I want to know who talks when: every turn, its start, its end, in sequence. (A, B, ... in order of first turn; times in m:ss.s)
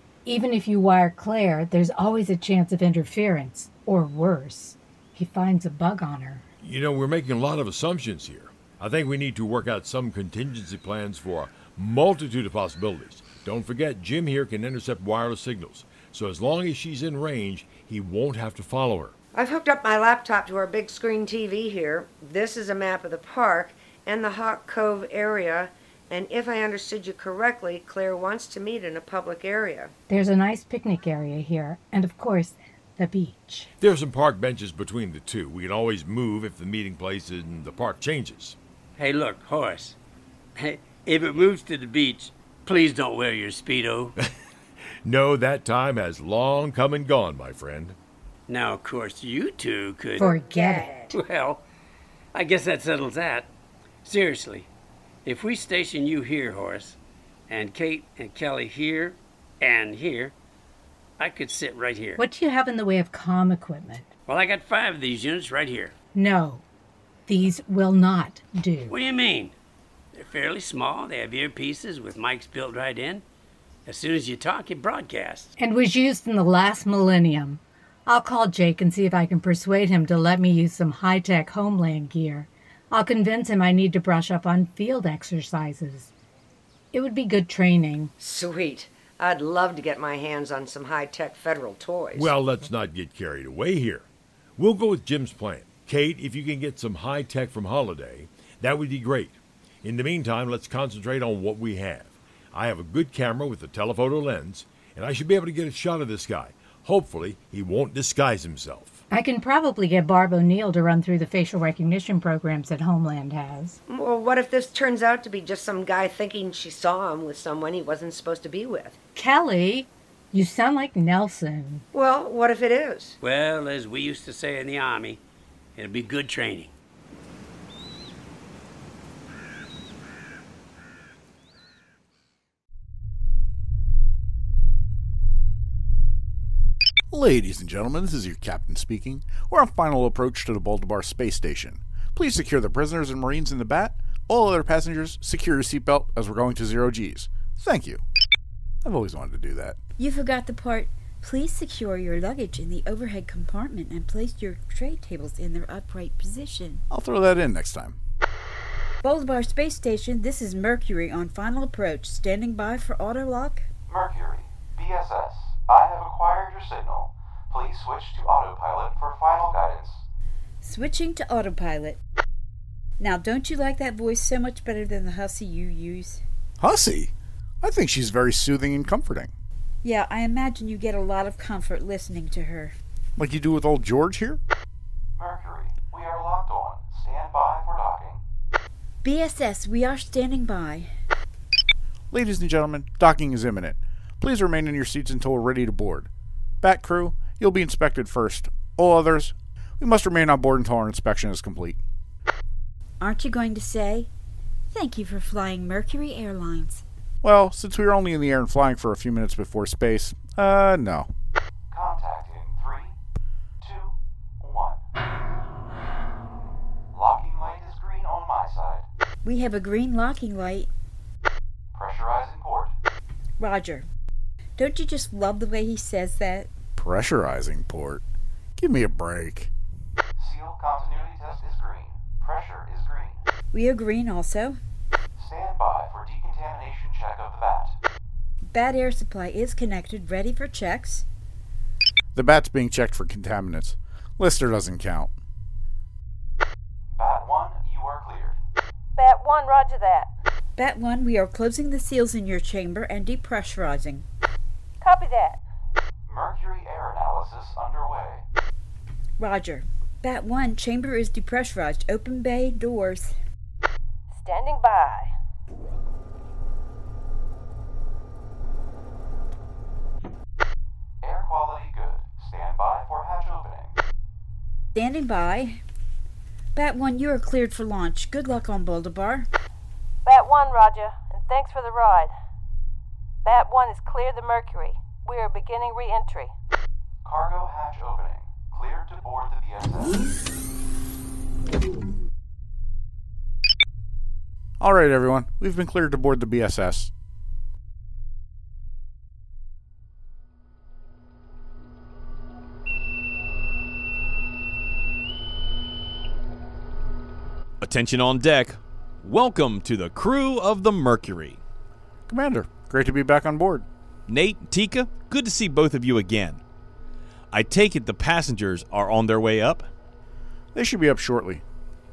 0:00.2-0:06.4 A
0:06.6-0:19.1 B
0:19.3-0:29.9 C
0:30.1-0:33.7 A
0:33.8-0:38.6 B
0:39.0-0:40.0 D
0:40.6-0:44.1 D
0:45.0-0:48.0 B
0:48.5-0:50.3 D
0:50.2-0:51.0 A
0:50.2-0:51.1 C
0:51.1-0:51.6 D
0:52.3-0:53.5 D
0:54.0-0:54.7 D
0:55.2-0:57.0 D
0:57.5-1:00.3 D
1:01.2-1:02.2 D
1:02.2-1:04.0 A
1:04.3-1:05.9 D
1:06.1-1:06.6 A
1:07.3-1:09.0 A
1:08.9-1:09.5 D
1:10.1-1:13.2 D
1:13.8-1:15.5 D
1:15.6-1:26.1 A
1:26.9-1:28.1 A
1:28.2-1:32.3 C
1:32.1-1:34.0 B
1:34.6-1:49.0 B
1:49.1-1:53.8 A
1:53.9-1:59.0 C
1:59.2-2:01.8 A
2:01.9-2:03.2 C
2:03.2-2:05.2 D
2:05.8-2:06.7 D
2:17.1-2:28.0 E
2:28.8-2:29.8 E
2:30.0-2:36.8 F
2:36.9-2:38.0 E
2:39.0-2:43.6 F
2:43.9-2:50.0 G
2:50.6-2:52.0 F
2:53.0-2:56.2 F
2:56.6-2:59.3 E
2:59.8-3:02.7 F
3:03.2-3:04.4 E
3:05.2-3:08.2 G
3:09.0-3:10.9 F
3:12.1-3:16.1 E
3:16.6-3:21.8 E
3:23.0-3:24.1 F
3:24.7-3:26.8 F
3:27.2-3:31.1 E
3:31.7-3:32.9 G
3:33.6-3:34.8 G
3:36.9-3:38.8 G
3:39.2-3:40.7 F
3:41.7-3:42.7 G
3:43.4-3:43.8 F
3:44.6-3:46.5 F
3:46.8-3:48.0 E
3:48.6-3:49.5 E
3:50.2-3:53.2 G
3:53.5-3:54.6 F
3:55.2-3:57.8 G
3:58.5-4:01.0 F
4:02.1-4:05.1 E
4:06.9-4:08.4 G
4:09.0-4:10.1 H
4:10.6-4:14.0 F
4:14.8-4:15.4 H
4:16.1-4:18.2 G
4:19.2-4:23.2 F
4:24.1-4:25.1 H
4:31.0-4:33.8 G
4:34.7-4:35.6 F
4:36.5-4:39.3 F
4:40.0-4:42.1 H
4:43.2-4:46.3 H
4:47.0-4:50.0 G
4:54.6-4:56.9 E
5:07.6-5:11.4 I
5:12.1-5:13.6 E
5:14.1-5:16.4 I
5:17.3-5:19.7 I
5:20.5-5:21.4 E